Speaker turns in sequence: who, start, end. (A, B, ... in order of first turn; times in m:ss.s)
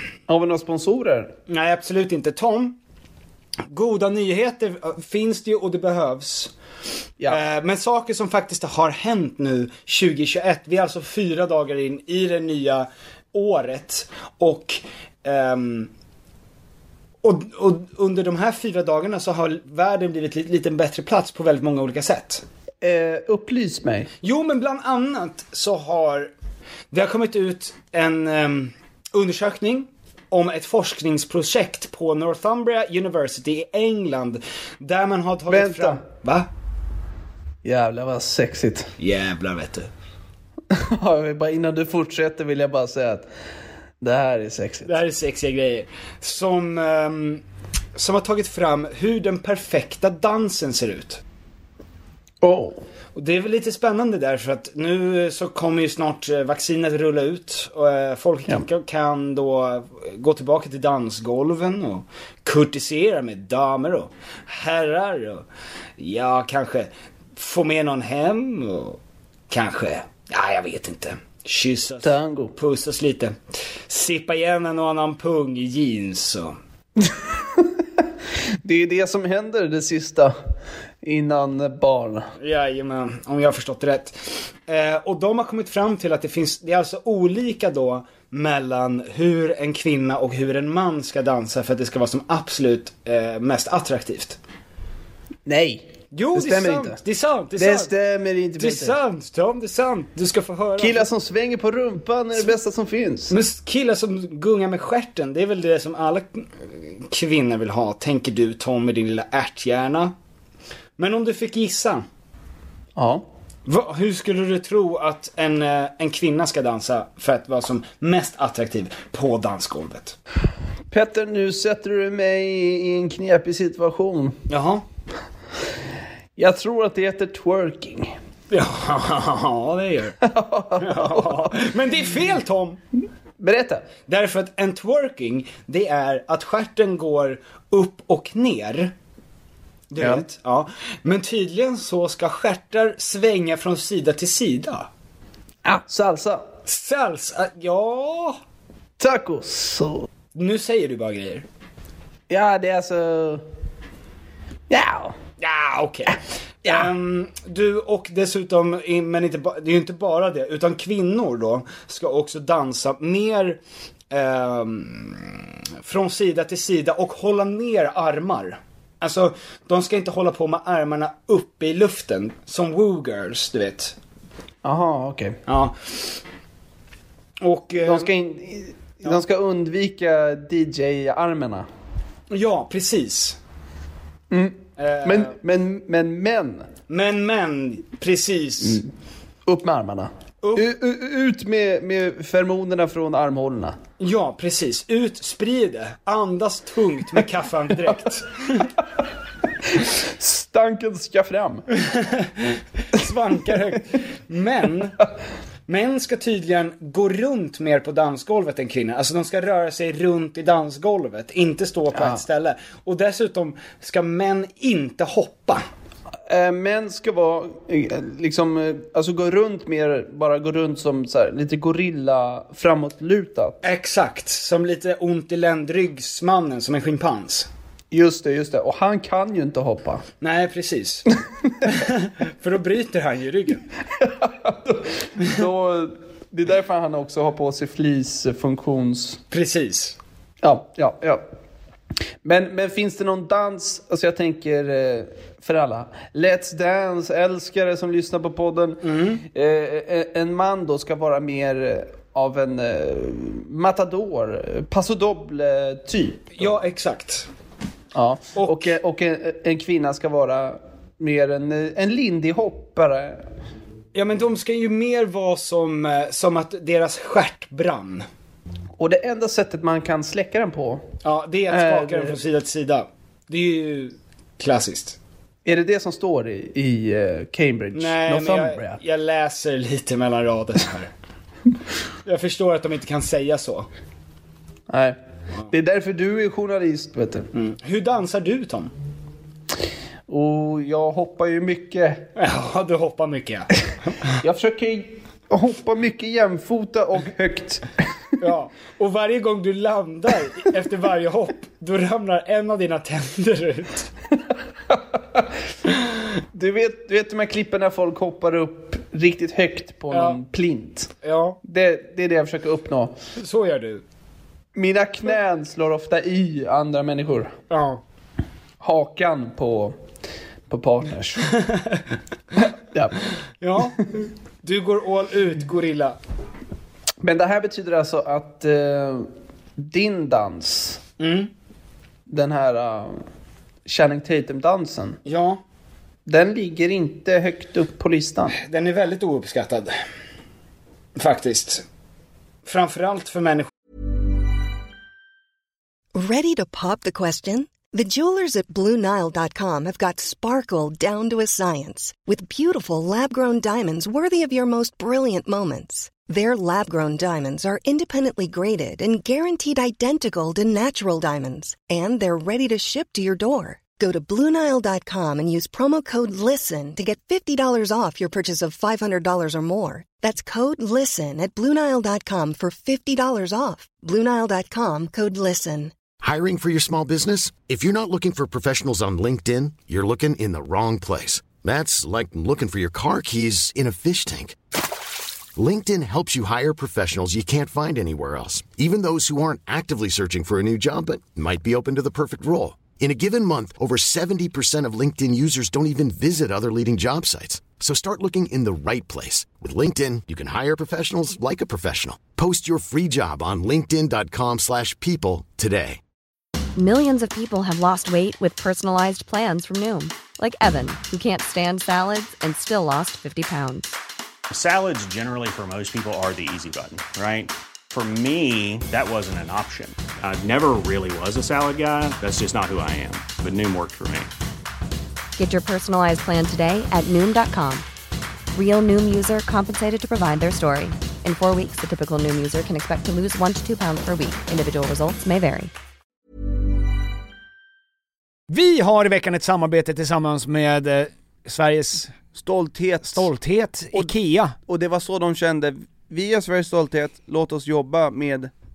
0:00.3-0:01.3 A
0:01.5-0:02.8 B
0:03.7-0:06.5 B
0:07.3-0:15.9 B
0:17.2-0:22.4 B
0:22.8-0:24.1 A
0:24.2-0:26.3 B
0:26.9-0:36.5 B
0:35.5-0:36.0 A
0:37.6-0:38.9 A
0:39.0-0:39.9 B
0:40.7-0:43.3 A
0:44.0-0:44.9 A
0:44.9-0:47.4 B
0:48.0-0:51.2 B
0:52.4-0:52.8 A
0:53.2-1:05.4 B
1:06.0-1:09.0 B
1:09.5-1:13.4 B
1:12.0-1:12.5 A
1:13.9-1:16.6 B
1:18.6-1:20.4 A
1:21.0-1:22.3 A
1:22.4-1:34.4 B
1:35.5-1:37.0 A
1:36.1-1:37.9 B
1:37.6-1:39.0 A
1:38.6-1:41.1 B
1:40.8-1:43.3 A
1:43.3-1:50.1 B
1:51.0-1:52.0 B
1:53.0-1:53.3 A
1:53.7-2:00.2 B
2:00.9-2:04.4 A
2:04.5-2:04.8 B
2:06.4-2:08.2 A
2:08.5-2:10.2 B
2:10.2-2:11.6 A
2:10.8-2:12.8 B
2:13.4-2:13.9 A
2:14.1-2:18.9 B
2:19.9-2:24.9 B
2:25.6-2:26.4 A
2:26.7-2:28.4 B
2:29.0-2:30.1 A
2:30.4-2:31.4 B
2:32.3-2:33.4 A
2:34.7-2:35.2 A
2:35.4-2:43.6 B
2:44.1-2:54.0 B
2:54.6-2:55.4 A
2:55.5-2:56.0 B
2:57.4-2:58.1 B
2:57.8-3:01.7 A
3:02.3-3:03.4 B
3:04.3-3:06.7 A
3:04.8-3:05.3 B
3:06.9-3:08.8 B
3:09.5-3:13.8 A
3:14.0-3:18.7 B
3:20.2-3:21.6 A
3:21.9-3:25.0 B
3:25.7-3:35.6 B
3:31.9-3:32.2 A
3:36.3-3:43.6 A
3:43.6-3:47.5 B
3:47.9-3:50.0 A
3:50.2-3:51.1 B
3:51.6-3:53.6 B
3:54.0-3:59.2 A
3:59.3-4:00.0 B
4:00.4-4:01.2 A
4:02.2-4:16.5 A
4:08.8-4:09.2 B
4:16.4-4:17.3 B
4:17.9-4:23.2 A
4:18.4-4:18.7 B
4:23.9-4:28.1 B
4:28.8-4:30.8 A
4:31.0-4:35.0 B
4:31.5-4:32.2 A
4:35.4-4:38.8 A
4:37.8-4:40.9 B
4:42.0-4:43.7 B
4:44.7-4:45.0 A
4:45.5-4:47.3 A
4:47.3-4:48.7 B
4:50.1-4:52.1 A
4:52.2-4:53.5 B
4:54.2-4:57.7 A
4:58.2-5:03.9 B
5:06.3-5:10.9 A
5:09.9-5:10.2 B
5:11.0-5:11.4 B
5:11.4-5:13.0 A
5:13.2-5:13.8 B
5:14.6-5:17.3 A
5:17.5-5:17.8 B
5:18.6-5:19.8 A
5:20.5-5:21.3 A
5:21.4-5:21.8 B
5:22.7-5:23.0 A
5:23.4-5:26.0 B
5:27.0-5:30.8 A
5:31.0-5:31.3 B
5:32.1-5:33.0 A
5:33.7-5:35.0 A
5:35.1-5:35.4 B
5:36.1-5:38.4 A
5:38.4-5:39.7 B
5:41.0-5:41.6 B
5:42.4-5:43.5 B
5:45.9-6:15.8 C
6:16.0-6:24.4 D
6:25.4-6:45.8 D
6:46.6-6:53.7 E
6:54.3-7:04.1 F
7:05.2-7:07.7 E
7:08.3-7:15.5 E
7:18.3-7:22.0 G
7:22.2-7:23.1 A
7:22.8-7:24.4 G
7:24.5-7:28.3 A